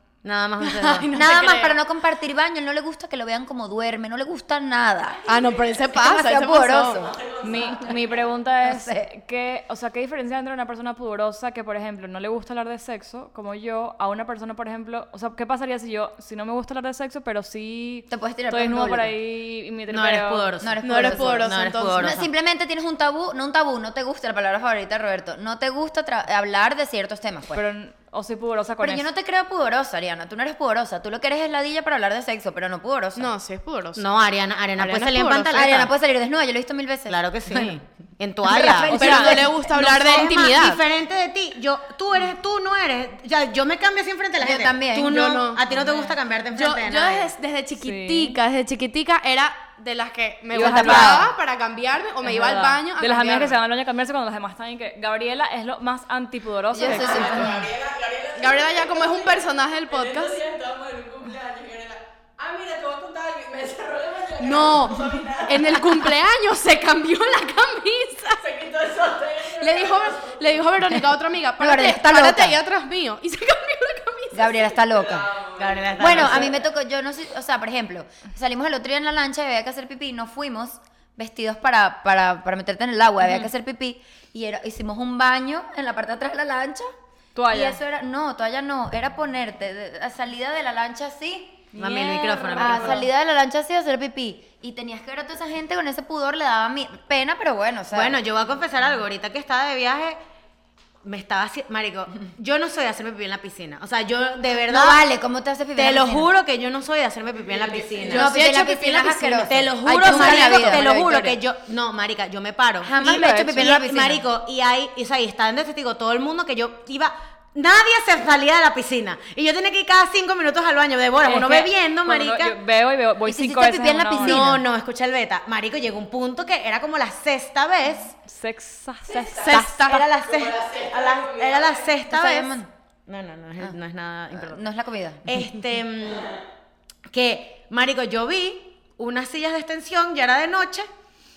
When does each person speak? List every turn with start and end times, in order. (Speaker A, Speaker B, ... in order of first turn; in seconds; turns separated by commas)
Speaker A: 0.2-1.8, Speaker B: 0.6-5.2, Speaker C: 5.2-5.9, Speaker D: 5.3-7.1, Speaker B: 5.9-7.1, Speaker C: 7.0-8.1, Speaker E: 7.4-20.5, Speaker B: 8.6-9.1, Speaker B: 18.1-19.1, Speaker A: 19.9-22.3, Speaker B: 20.6-27.6, Speaker D: 20.8-22.2, Speaker E: 27.5-29.1, Speaker B: 28.8-33.3, Speaker D: 33.1-34.0, Speaker A: 34.0-35.9, Speaker D: 34.8-35.5, Speaker B: 35.5-37.7, Speaker A: 37.1-47.3, Speaker B: 38.4-39.6, Speaker E: 38.9-39.5, Speaker D: 38.9-40.8, Speaker B: 44.4-45.2, Speaker D: 45.1-45.6, Speaker D: 46.5-53.6, Speaker E: 47.8-48.4, Speaker B: 50.5-51.3, Speaker E: 50.5-51.2, Speaker E: 52.2-57.5, Speaker B: 56.7-57.7, Speaker C: 56.9-66.1, Speaker D: 58.4-60.4, Speaker D: 64.4-68.4, Speaker C: 68.4-70.7, Speaker D: 69.5-74.5, Speaker B: 70.9-72.6, Speaker B: 74.3-75.3, Speaker C: 74.6-76.6, Speaker A: 75.6-76.6, Speaker B: 76.0-86.9, Speaker E: 87.3-87.8, Speaker B: 87.5-91.7, Speaker E: 91.7-93.0, Speaker A: 91.7-93.1, Speaker B: 92.5-98.2, Speaker A: 97.9-100.2, Speaker A: 101.0-105.0, Speaker B: 104.7-106.3, Speaker A: 105.8-108.3, Speaker C: 107.5-108.2, Speaker D: 108.0-111.3, Speaker B: 108.1-111.2, Speaker A: 109.4-122.5, Speaker B: 112.8-114.2, Speaker E: 113.0-113.5, Speaker E: 121.2-124.5, Speaker B: 123.2-124.6, Speaker A: 124.2-128.1, Speaker E: 128.2-130.0, Speaker C: 129.1-132.0, Speaker D: 129.3-130.0, Speaker A: 129.8-134.6, Speaker B: 132.1-132.7, Speaker B: 134.3-135.4, Speaker A: 135.2-136.3, Speaker A: 137.1-140.9